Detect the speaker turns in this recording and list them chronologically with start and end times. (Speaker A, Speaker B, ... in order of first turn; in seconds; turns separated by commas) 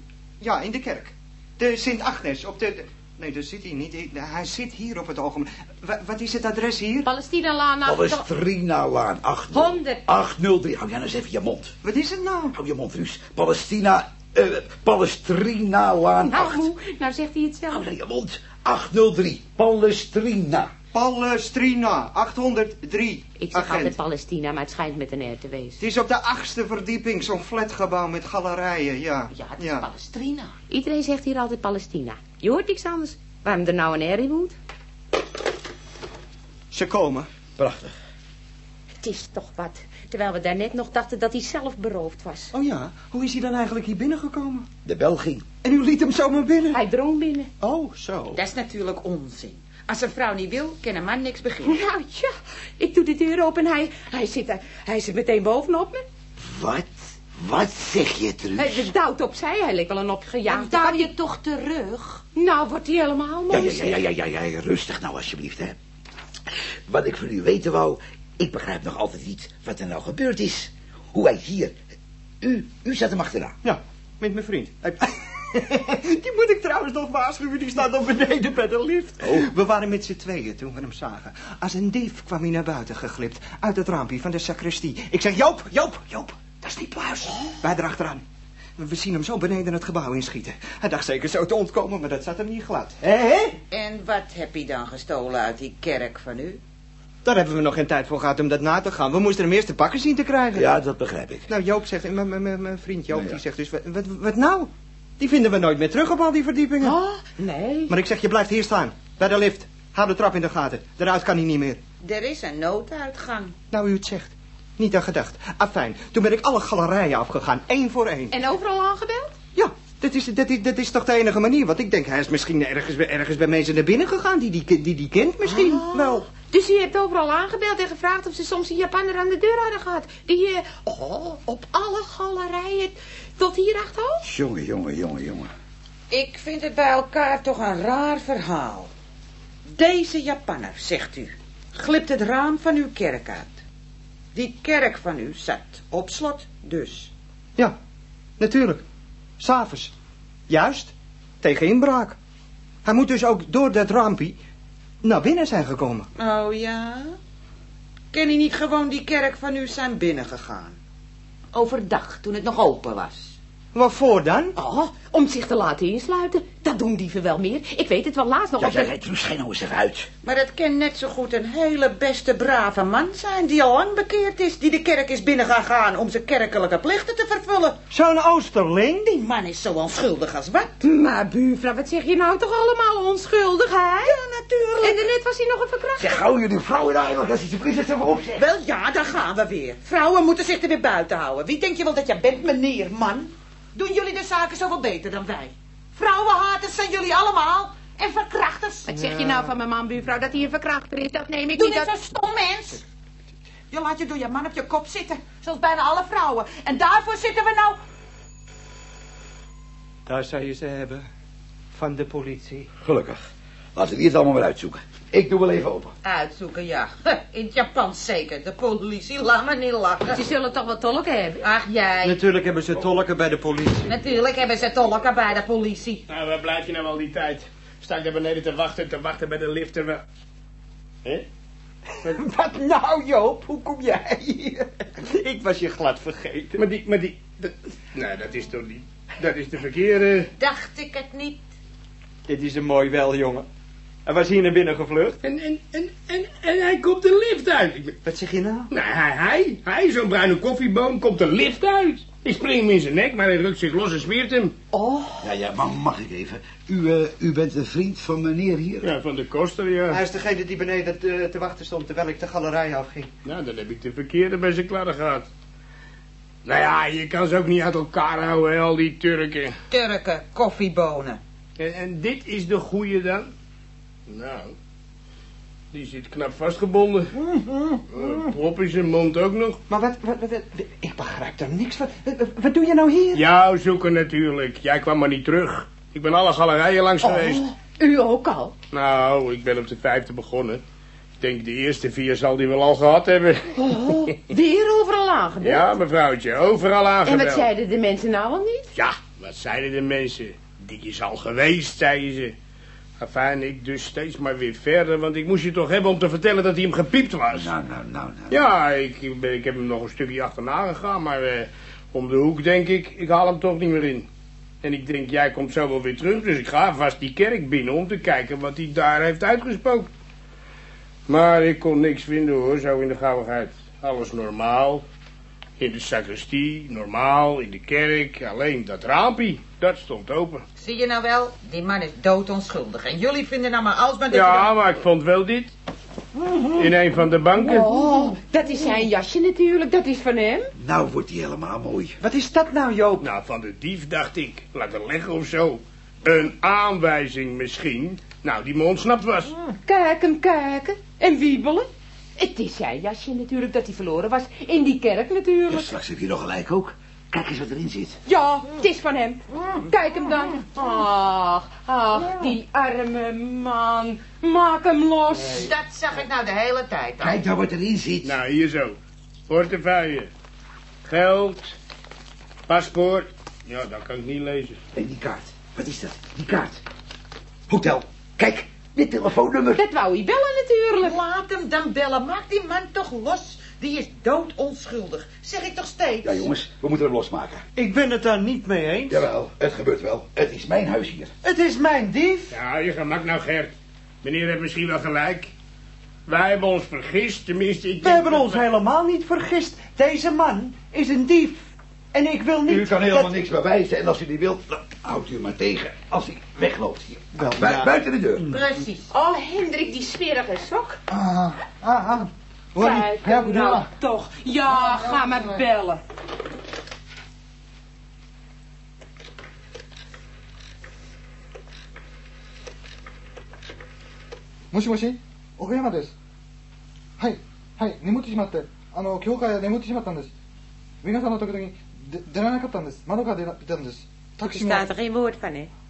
Speaker A: 0.4-7.1, Speaker B: 7.0-8.3, Speaker C: 7.8-11.8, Speaker B: 9.5-10.0, Speaker A: 11.8-12.5, Speaker C: 12.5-16.7, Speaker B: 16.3-17.8, Speaker C: 17.7-20.7, Speaker A: 20.9-23.9, Speaker B: 23.4-25.8, Speaker A: 25.8-29.9, Speaker D: 29.3-30.6, Speaker B: 30.7-34.5, Speaker A: 36.7-37.3, Speaker C: 37.5-37.9, Speaker B: 39.0-42.5, Speaker A: 42.5-44.7, Speaker C: 44.8-45.5, Speaker A: 45.6-46.8, Speaker B: 46.7-47.5, Speaker A: 47.6-48.4, Speaker D: 48.3-51.8, Speaker B: 51.6-56.0, Speaker C: 56.4-58.9, Speaker B: 58.5-61.1, Speaker D: 60.5-62.2, Speaker B: 62.3-64.0, Speaker C: 63.5-65.8, Speaker C: 66.9-71.8, Speaker C: 72.4-73.5, Speaker A: 73.6-88.2, Speaker C: 79.2-79.5, Speaker A: 88.8-93.6, Speaker D: 93.7-96.6, Speaker A: 97.2-100.7, Speaker C: 100.5-101.5, Speaker A: 101.5-107.0, Speaker C: 103.1-103.4, Speaker B: 106.8-107.9, Speaker A: 107.9-111.8, Speaker D: 112.0-113.6, Speaker A: 113.7-118.3, Speaker B: 118.3-119.4, Speaker A: 119.5-126.2, Speaker B: 125.5-134.2, Speaker C: 134.2-135.5, Speaker D: 136.1-138.9, Speaker D: 139.7-143.6, Speaker D: 144.3-147.1, Speaker A: 148.4-148.8, Speaker A: 149.4-149.9, Speaker A: 150.5-152.2, Speaker A: 152.8-154.4, Speaker A: 155.0-156.1, Speaker D: 156.2-157.2, Speaker D: 158.1-160.8, Speaker D: 161.5-163.4, Speaker A: 163.7-164.5, Speaker B: 164.6-168.9, Speaker C: 168.6-170.1, Speaker D: 170.2-177.8, Speaker A: 177.9-179.2, Speaker D: 179.1-180.8, Speaker B: 180.8-184.2, Speaker D: 184.0-185.0, Speaker B: 184.8-186.2, Speaker C: 186.0-188.5, Speaker D: 188.3-198.9, Speaker B: 198.9-201.9, Speaker A: 198.9-199.5, Speaker D: 201.5-202.8, Speaker D: 203.7-207.8, Speaker A: 210.1-211.1, Speaker A: 211.7-212.7, Speaker C: 212.8-215.9, Speaker D: 216.0-220.2, Speaker B: 220.1-221.4, Speaker D: 221.4-222.2, Speaker A: 222.0-223.9, Speaker D: 223.8-226.0, Speaker E: 226.1-230.0, Speaker A: 232.0-236.6, Speaker E: 236.6-240.3, Speaker D: 240.4-241.4, Speaker A: 242.3-243.5, Speaker A: 244.1-245.2, Speaker E: 245.2-248.0, Speaker A: 248.0-248.7, Speaker E: 248.7-254.5, Speaker B: 254.7-255.3, Speaker C: 255.2-258.9, Speaker E: 258.8-260.0, Speaker A: 259.9-263.1, Speaker E: 263.2-265.3, Speaker E: 266.4-269.5, Speaker D: 269.7-271.2, Speaker E: 271.6-273.3, Speaker E: 274.1-274.5, Speaker E: 275.7-277.1, Speaker F: 277.3-277.8, Speaker E: 277.9-279.6, Speaker A: 279.7-283.2, Speaker E: 283.1-287.4, Speaker B: 287.0-288.5, Speaker E: 288.7-290.6, Speaker E: 291.2-294.1, Speaker B: 293.5-295.7, Speaker E: 295.4-297.5, Speaker B: 297.0-298.7, Speaker E: 298.7-302.3, Speaker E: 303.0-307.5, Speaker C: 307.3-308.5, Speaker E: 308.3-314.1, Speaker E: 314.6-319.9, Speaker E: 321.1-324.9, Speaker E: 325.6-330.4, Speaker D: 330.6-334.5, Speaker E: 334.1-335.5, Speaker E: 336.5-337.7, Speaker B: 337.4-340.5, Speaker C: 340.6-342.0, Speaker A: 342.0-343.1, Speaker E: 343.0-349.4, Speaker B: 349.6-355.7, Speaker C: 355.5-358.0, Speaker B: 358.1-365.5, Speaker D: 365.2-367.2, Speaker C: 367.0-368.1, Speaker E: 368.0-370.1, Speaker E: 370.8-371.6, Speaker E: 372.5-374.6, Speaker C: 374.7-376.6, Speaker C: 377.5-379.6, Speaker B: 379.6-381.0, Speaker D: 380.8-386.3, Speaker C: 386.0-387.4, Speaker A: 387.6-389.0, Speaker C: 388.9-391.1, Speaker A: 391.2-392.4, Speaker E: 392.3-393.5, Speaker E: 394.0-395.3, Speaker E: 396.1-398.4, Speaker A: 397.8-403.2, Speaker C: 402.5-408.2, Speaker A: 407.1-408.4, Speaker D: 408.3-408.9, Speaker B: 408.9-410.8, Speaker F: 410.9-412.1, Speaker A: 412.5-413.7, Speaker B: 412.6-415.8, Speaker F: 414.4-415.4, Speaker F: 424.5-425.9, Speaker F: 427.0-430.1, Speaker F: 430.8-434.7, Speaker B: 434.2-435.5